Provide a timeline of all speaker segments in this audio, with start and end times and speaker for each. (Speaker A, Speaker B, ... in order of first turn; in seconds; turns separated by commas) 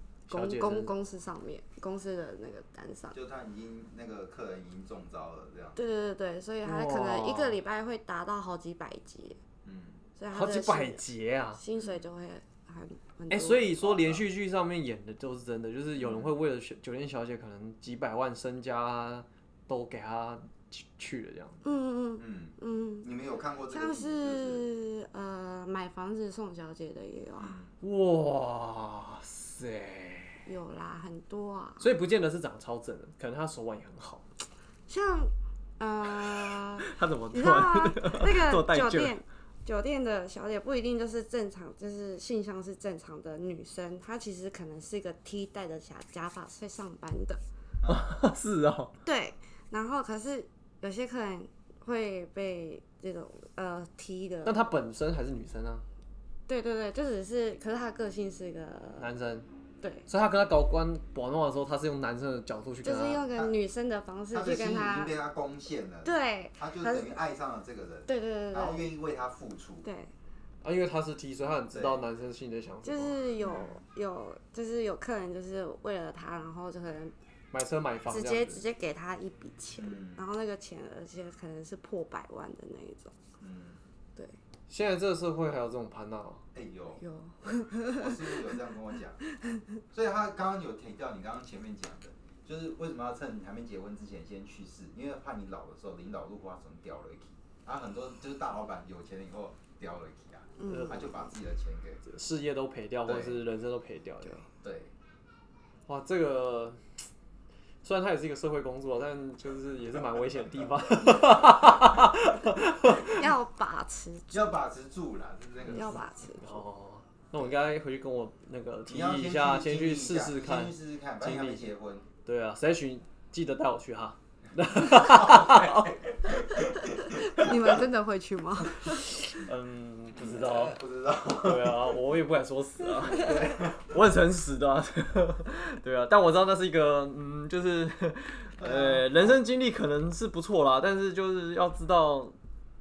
Speaker A: 0.3-3.1, Speaker B: 0.3-0.9, Speaker C: 3.1-5.8, Speaker A: 5.8-9.4, Speaker B: 6.6-7.5, Speaker C: 9.6-10.0, Speaker A: 10.2-11.0, Speaker B: 10.3-11.6, Speaker A: 11.6-13.7, Speaker C: 11.8-12.0, Speaker B: 13.3-21.6, Speaker C: 13.8-14.2, Speaker C: 15.9-16.3, Speaker A: 21.6-23.1, Speaker C: 22.2-24.6, Speaker A: 23.7-27.5, Speaker C: 27.4-27.7, Speaker B: 27.8-30.4, Speaker A: 30.4-31.9, Speaker B: 31.8-34.2, Speaker A: 34.9-47.4, Speaker B: 36.1-39.1, Speaker C: 47.8-48.1, Speaker B: 47.9-48.9, Speaker A: 49.0-54.7, Speaker B: 54.4-55.8, Speaker A: 56.5-59.1, Speaker B: 59.0-59.5, Speaker B: 60.1-63.2, Speaker A: 62.8-65.1, Speaker C: 64.3-69.8, Speaker A: 66.0-67.2, Speaker A: 68.1-68.9, Speaker A: 69.8-70.1, Speaker B: 70.6-73.2, Speaker C: 71.7-72.0, Speaker A: 72.8-77.1, Speaker C: 73.4-73.8, Speaker B: 77.5-78.6, Speaker A: 78.1-83.1, Speaker C: 79.8-80.2, Speaker C: 83.4-83.8, Speaker B: 84.7-86.4, Speaker C: 86.5-87.0, Speaker A: 87.0-88.5, Speaker C: 87.9-89.2, Speaker A: 89.4-89.6, Speaker C: 89.9-102.0, Speaker A: 100.6-101.2, Speaker B: 100.7-101.0, Speaker B: 102.0-104.4, Speaker C: 103.0-103.4, Speaker C: 104.6-104.9, Speaker B: 105.9-106.8, Speaker B: 107.8-113.3, Speaker A: 113.0-114.5, Speaker C: 114.3-116.0, Speaker B: 115.7-121.7, Speaker A: 115.7-116.6, Speaker C: 118.9-122.0, Speaker B: 122.2-126.0, Speaker C: 124.8-127.8, Speaker A: 127.0-129.4, Speaker B: 129.2-142.3, Speaker C: 130.1-132.0, Speaker C: 133.0-133.8, Speaker C: 138.6-139.4